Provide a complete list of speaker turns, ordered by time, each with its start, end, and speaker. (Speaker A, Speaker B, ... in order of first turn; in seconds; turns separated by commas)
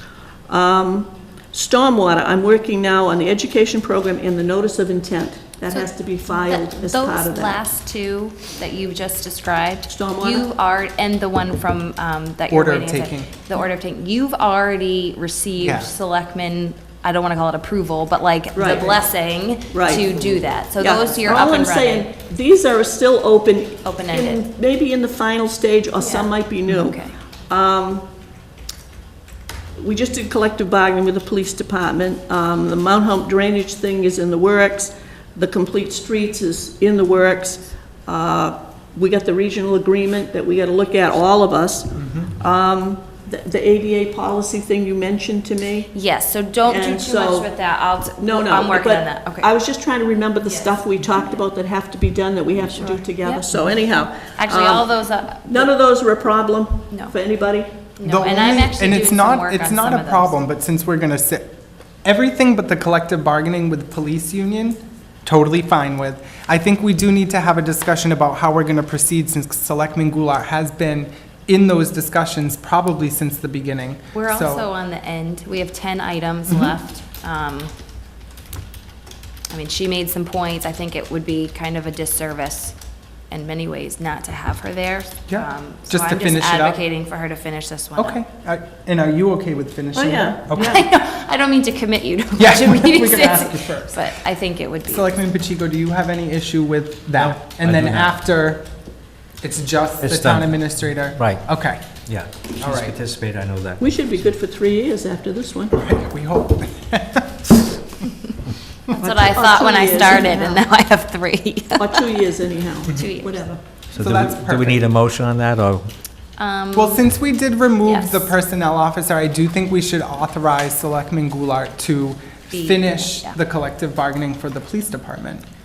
Speaker A: 0.5-7.6, Speaker B: 5.7-22.1, Speaker A: 9.9-10.5, Speaker C: 12.5-13.3, Speaker C: 15.6-15.9, Speaker A: 18.6-19.0, Speaker A: 19.7-20.0, Speaker A: 20.8-28.1, Speaker B: 23.8-24.4, Speaker B: 26.0-27.1, Speaker A: 29.8-45.9, Speaker C: 42.0-42.3, Speaker B: 45.9-49.5, Speaker A: 46.6-47.5, Speaker A: 48.2-54.9, Speaker B: 50.4-50.8, Speaker B: 52.7-53.4, Speaker B: 54.3-55.7, Speaker A: 55.5-57.7, Speaker B: 58.0-60.4, Speaker C: 58.0-74.7, Speaker B: 74.1-77.7, Speaker C: 76.5-76.7, Speaker B: 79.5-82.8, Speaker B: 83.3-88.2, Speaker C: 85.3-86.8, Speaker C: 88.0-90.8, Speaker A: 89.9-90.8, Speaker B: 90.5-95.1, Speaker C: 92.4-94.0, Speaker C: 94.8-98.7, Speaker D: 97.2-98.1, Speaker C: 99.4-102.0, Speaker D: 100.0-101.4, Speaker D: 102.0-103.8, Speaker C: 102.6-102.9, Speaker A: 103.8-105.7, Speaker C: 105.7-107.5, Speaker A: 109.0-110.6, Speaker B: 109.0-112.3, Speaker A: 111.8-113.6, Speaker B: 112.8-113.4, Speaker D: 113.9-115.9, Speaker C: 113.9-114.9, Speaker B: 116.4-117.0, Speaker C: 116.7-125.4, Speaker B: 117.8-118.3, Speaker B: 122.5-123.4